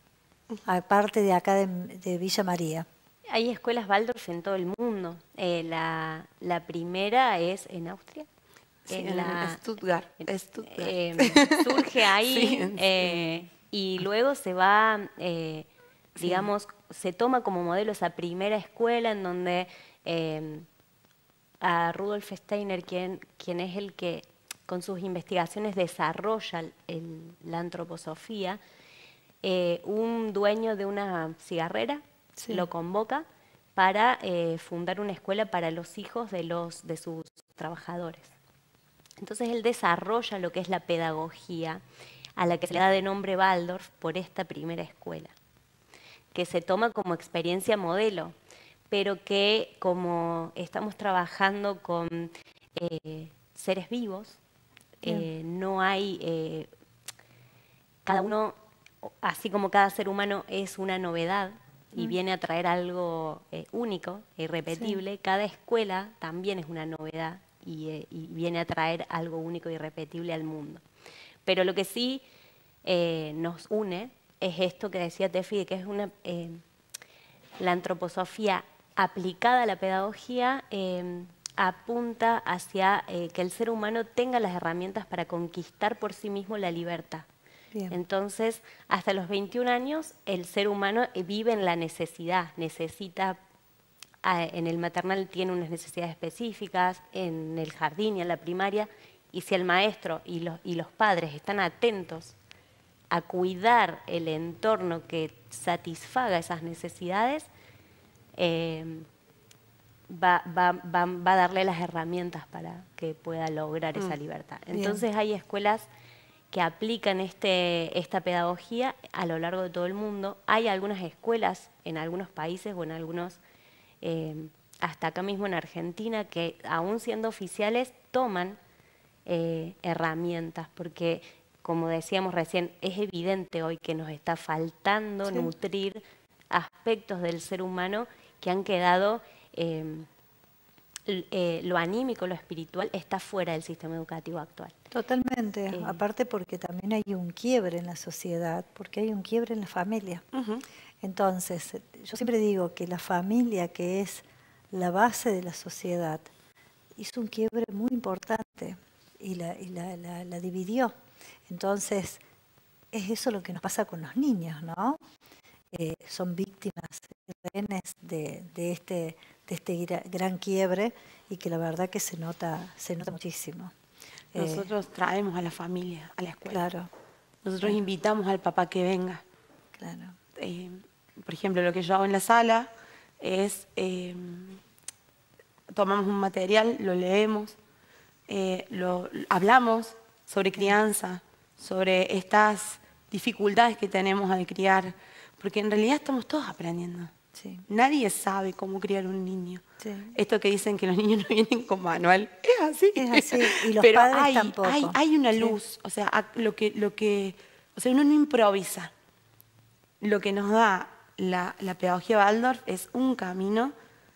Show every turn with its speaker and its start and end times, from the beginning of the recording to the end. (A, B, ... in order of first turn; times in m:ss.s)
0:00.6-0:02.9 A
0:03.3-0:08.3 B
0:08.9-0:09.6 B
0:08.9-0:13.4 C
0:10.2-0:15.7 B
0:16.2-0:16.5 C
0:16.2-0:20.6 B
0:21.6-0:28.6 B
0:29.4-0:38.3 B
0:32.4-0:32.6 A
0:39.2-0:41.8 B
0:42.4-0:45.3 B
0:46.3-0:48.3 B
0:48.9-0:54.4 B
0:55.0-0:56.7 B
0:58.0-1:10.8 B
1:11.4-1:12.2 B
1:12.8-1:16.6 B
1:17.6-1:27.3 B
1:27.9-1:33.4 B
1:34.2-1:42.4 B
1:43.1-1:47.5 B
1:48.4-1:49.1 B
1:50.1-1:55.8 B
1:54.7-1:55.0 A
1:56.5-2:03.4 B
2:04.0-2:08.6 B
2:09.2-2:20.1 B
2:21.1-2:24.7 B
2:24.9-2:30.2 A
2:25.7-2:26.0 B
2:30.3-2:30.6 C
2:31.0-2:36.3 A
2:37.0-2:40.9 A
2:41.5-2:42.2 A
2:42.9-2:45.0 A
2:45.7-2:53.7 A
2:54.3-2:54.7 A
2:54.3-2:56.6 C
2:56.5-2:56.9 A
2:57.4-2:59.2 C
2:59.8-3:00.2 A
3:00.4-3:04.6 C
3:05.7-3:07.6 C
3:08.3-3:17.1 C
3:17.3-3:17.6 A
3:17.7-3:28.9 C
3:19.8-3:20.1 A
3:23.0-3:25.6 A
3:30.0-3:33.7 C